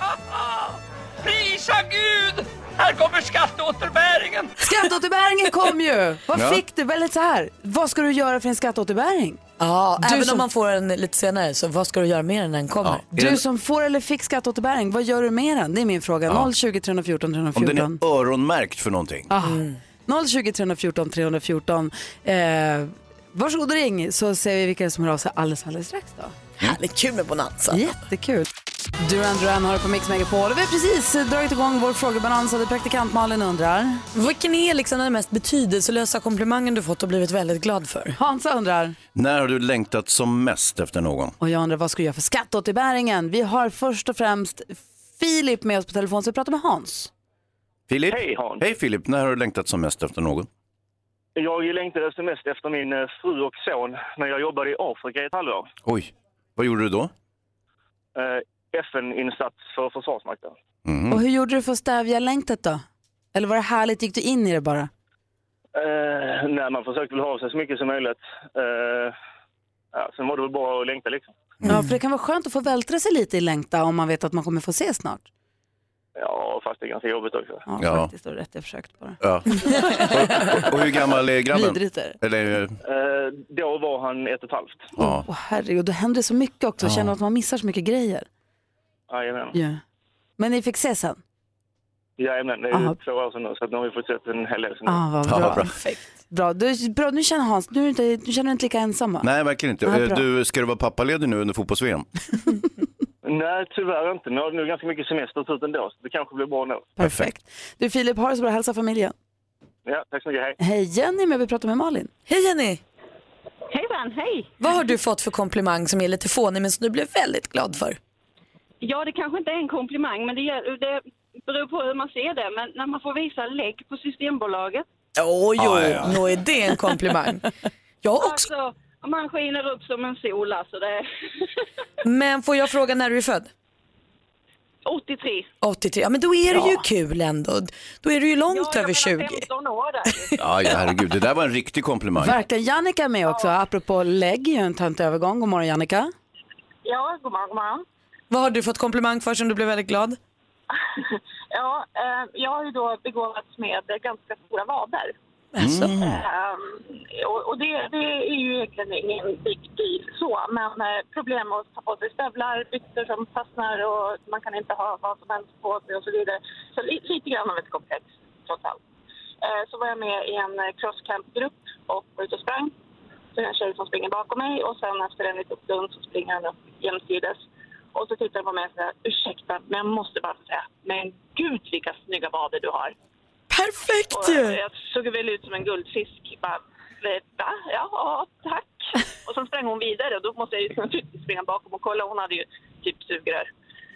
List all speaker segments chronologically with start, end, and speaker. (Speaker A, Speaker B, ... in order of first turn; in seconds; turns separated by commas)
Speaker A: 1.2-4.5, Speaker B: 4.6-9.4, Speaker C: 6.3-6.6, Speaker D: 9.6-13.1, Speaker B: 10.0-10.4, Speaker C: 12.8-13.4, Speaker B: 13.2-18.0, Speaker C: 17.5-19.3, Speaker B: 19.3-26.3, Speaker D: 19.4-19.8, Speaker D: 26.6-27.9, Speaker B: 27.7-34.0, Speaker D: 34.1-38.2, Speaker B: 38.2-39.0, Speaker C: 39.1-41.4, Speaker B: 41.4-47.1, Speaker C: 47.9-50.5, Speaker E: 48.1-48.6, Speaker E: 51.4-55.7, Speaker C: 55.8-57.1, Speaker E: 58.1-60.5, Speaker C: 60.9-61.2, Speaker B: 61.1-64.9, Speaker E: 65.7-69.1, Speaker E: 69.9-71.3, Speaker C: 71.6-71.9, Speaker B: 71.7-75.2, Speaker E: 76.2-77.6, Speaker B: 77.7-79.2, Speaker C: 77.8-78.1, Speaker C: 79.2-82.8, Speaker B: 80.3-80.7, Speaker B: 81.5-82.2, Speaker E: 82.8-84.9, Speaker B: 84.9-88.3, Speaker C: 85.0-85.2, Speaker C: 86.8-87.1, Speaker E: 89.1-89.6, Speaker B: 89.5-89.8, Speaker B: 90.4-91.2, Speaker E: 92.2-95.1, Speaker B: 94.9-99.3, Speaker C: 95.2-95.8, Speaker C: 99.2-102.1, Speaker B: 99.8-100.2, Speaker E: 103.2-106.9, Speaker B: 107.0-109.1, Speaker C: 107.0-107.3, Speaker E: 109.8-110.6, Speaker B: 110.6-112.1, Speaker D: 112.3-112.8, Speaker F: 113.7-114.5, Speaker D: 114.6-118.0, Speaker F: 118.8-124.8, Speaker D: 125.2-127.5, Speaker A: 125.6-125.9, Speaker D: 128.0-128.5, Speaker F: 128.2-131.0, Speaker D: 132.0-133.5, Speaker F: 134.8-135.5, Speaker D: 135.6-139.4, Speaker B: 136.5-136.8, Speaker F: 138.5-140.3, Speaker D: 140.1-140.8, Speaker C: 140.4-142.3, Speaker B: 142.2-146.1, Speaker F: 146.8-147.8, Speaker D: 148.3-150.2, Speaker F: 150.9-155.1, Speaker D: 155.5-155.9, Speaker C: 155.6-156.2, Speaker F: 155.9-168.8, Speaker F: 169.4-172.7, Speaker F: 173.3-177.4, Speaker F: 177.9-182.9, Speaker D: 183.5-184.6, Speaker F: 184.1-193.5